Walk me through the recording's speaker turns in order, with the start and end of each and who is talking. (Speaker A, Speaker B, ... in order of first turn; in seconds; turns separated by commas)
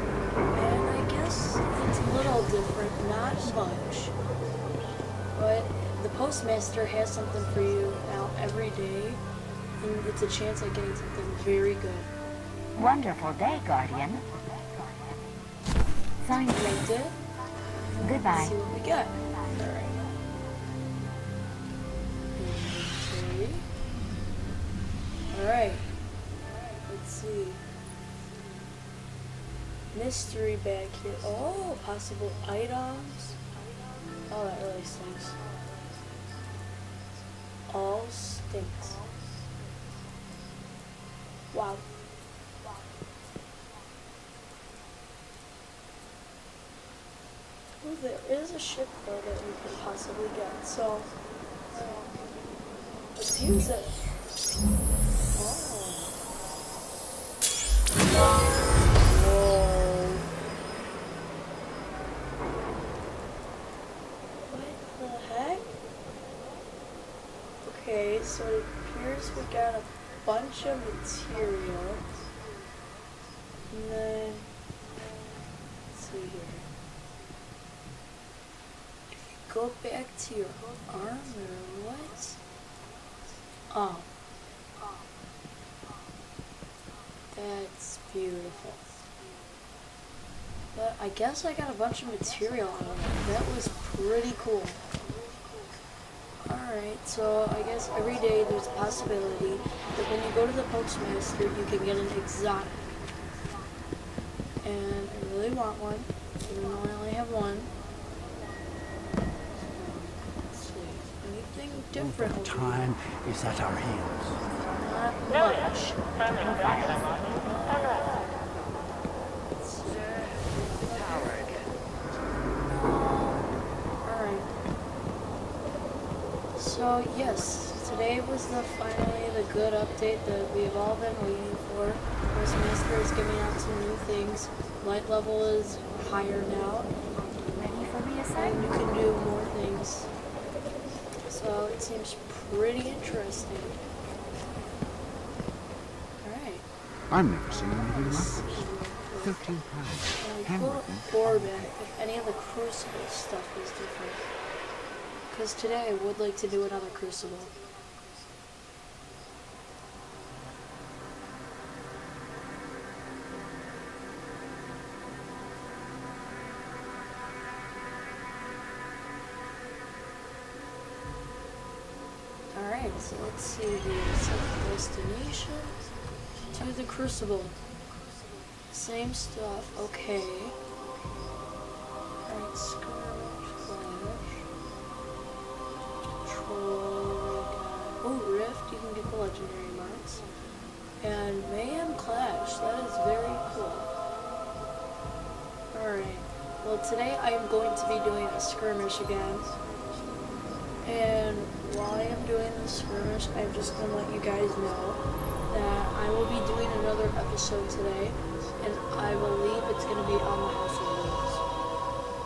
Speaker A: 0.5-4.1, Speaker A: 5.3-9.2, Speaker A: 9.8-12.1, Speaker B: 12.8-14.2, Speaker A: 16.5-17.1, Speaker B: 18.1-18.3, Speaker A: 18.3-20.0, Speaker A: 22.4-23.6, Speaker A: 25.3-25.9, Speaker A: 26.8-27.6, Speaker A: 29.9-33.4, Speaker A: 34.3-35.4, Speaker A: 37.7-39.0, Speaker A: 41.5-41.9, Speaker A: 47.8-51.1, Speaker A: 51.7-52.1, Speaker A: 53.2-53.9, Speaker A: 55.4-56.1, Speaker A: 59.0-60.3, Speaker A: 64.5-65.7, Speaker A: 67.6-72.0, Speaker A: 73.7-74.5, Speaker A: 75.9-76.7, Speaker A: 79.1-82.4, Speaker A: 83.7-84.1, Speaker A: 87.3-88.8, Speaker A: 90.8-94.8, Speaker A: 96.4-103.0, Speaker A: 104.6-107.7, Speaker A: 109.7-112.9, Speaker C: 112.0-114.4, Speaker A: 114.8-118.1, Speaker A: 119.5-121.5, Speaker A: 122.7-124.5, Speaker A: 126.5-136.9, Speaker B: 137.6-138.4, Speaker A: 138.4-140.1, Speaker A: 141.3-143.8, Speaker A: 146.2-146.7, Speaker C: 147.1-148.7, Speaker A: 147.5-149.5, Speaker C: 149.2-151.8, Speaker A: 150.2-154.2, Speaker A: 155.3-157.5, Speaker A: 172.5-175.8, Speaker A: 176.5-177.6, Speaker A: 178.7-180.6, Speaker A: 182.2-184.5, Speaker A: 186.2-190.2, Speaker A: 191.0-193.9, Speaker A: 195.7-199.5, Speaker A: 200.8-211.4